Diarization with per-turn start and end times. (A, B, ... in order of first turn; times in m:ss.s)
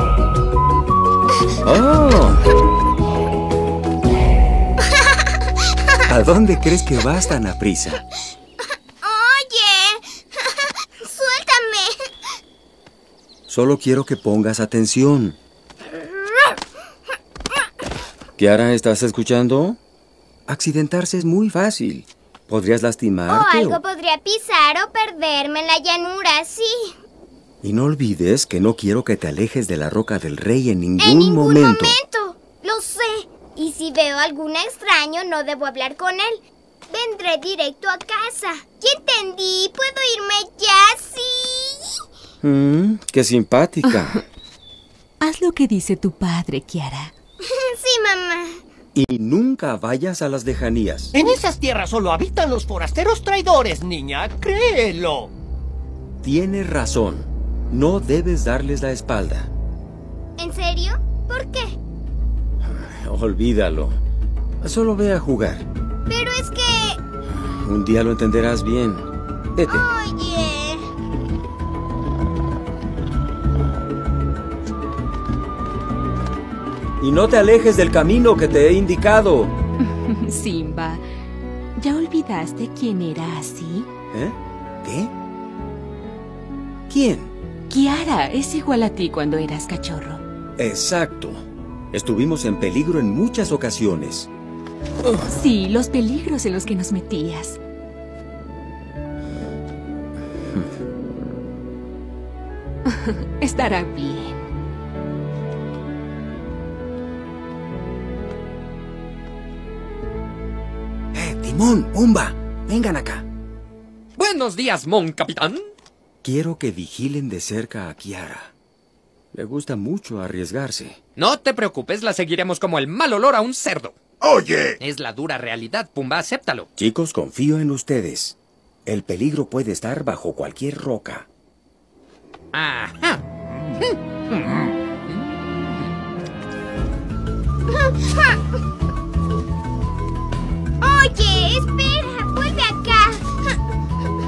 0:01.6-0:02.4 A
0:05.0-0:05.5 B
0:06.1-0:08.0 A
0:09.0-0:11.9 B
0:13.5-0:15.4 A
0:16.1-0:16.6 B
0:18.4-0:19.8 A
0:20.5-0:23.8 A
0:23.3-0:26.9 B
0:27.6-0:32.0 A
0:31.0-0:42.0 B
0:42.4-0:44.2 A
0:45.2-0:47.1 C
0:47.4-0:48.6 B
0:49.0-0:51.1 A
0:51.1-0:55.3 D
0:56.2-0:59.5 A
1:00.4-1:01.7 B
1:02.6-1:04.0 A
1:04.6-1:05.7 A
1:06.1-1:07.0 B
1:07.4-1:09.9 A
1:09.7-1:10.9 B
1:17.0-1:19.5 A
1:19.8-1:21.0 C
1:21.8-1:23.9 C
1:24.1-1:25.1 A
1:26.9-1:27.3 A
1:27.7-1:30.2 C
1:30.6-1:34.3 A
1:35.2-1:37.6 C
1:42.9-1:44.4 C
1:51.1-1:53.2 A
1:54.2-1:55.6 E
1:56.2-1:58.5 A
1:59.3-2:01.0 A
2:01.2-2:04.0 E
2:04.2-2:04.8 A
2:04.8-2:06.7 E
2:06.8-2:11.3 A
2:12.5-2:13.2 E
2:13.8-2:14.7 E
2:17.7-2:18.4 B
2:20.8-2:23.6 B